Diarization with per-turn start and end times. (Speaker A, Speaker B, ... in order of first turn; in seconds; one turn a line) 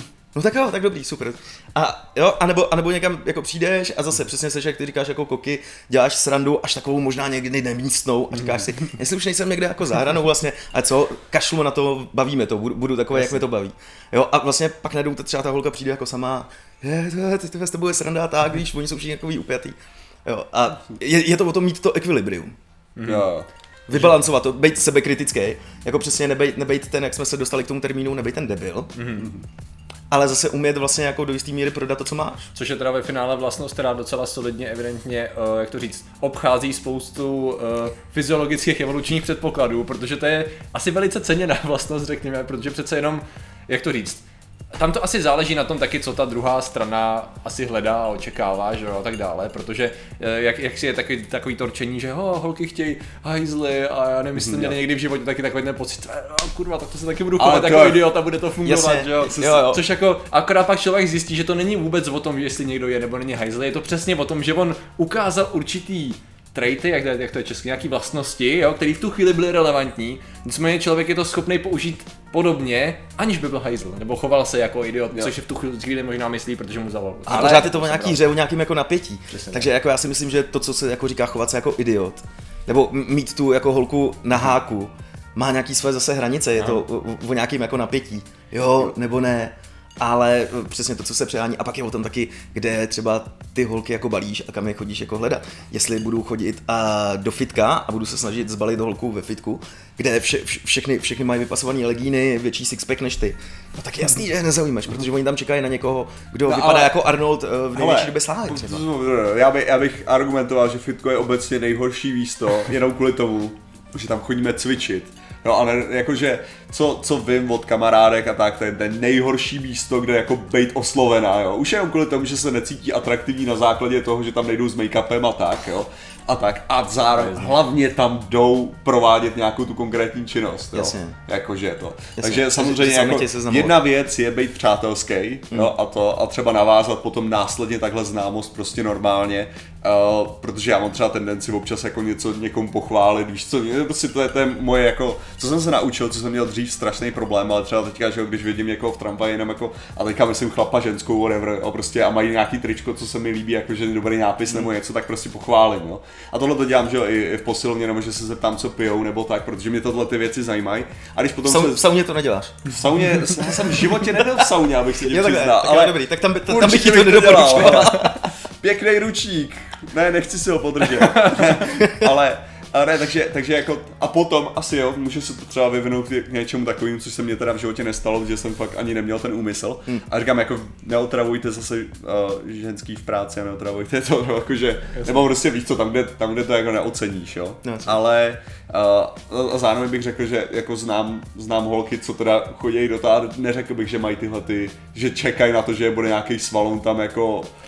Speaker A: 0.3-22.5
Speaker B: 13.1-13.4
Speaker B: 22.9-23.3
Speaker C: 23.1-23.5
Speaker A: 23.9-28.9
Speaker B: 23.9-24.2
Speaker B: 28.9-29.3
Speaker A: 30.1-32.5
Speaker B: 32.5-44.2
Speaker B: 44.7-78.2
Speaker C: 54.4-54.8
Speaker C: 57.4-58.1
Speaker A: 58.6-59.8
Speaker A: 77.3-108.8
Speaker C: 77.3-77.6
Speaker B: 79.3-79.7
Speaker B: 86.6-86.8
Speaker C: 106.5-107.0
Speaker C: 107.7-161.8
Speaker B: 127.1-127.6
Speaker A: 130.7-131.2
Speaker A: 132.2-133.8
Speaker A: 161.4-162.7
Speaker C: 162.7-197.5
Speaker A: 163.7-164.4
Speaker A: 165.1-168.3
Speaker B: 170.9-171.5
Speaker A: 171.8-172.1
Speaker B: 184.9-185.3
Speaker A: 187.6-188.0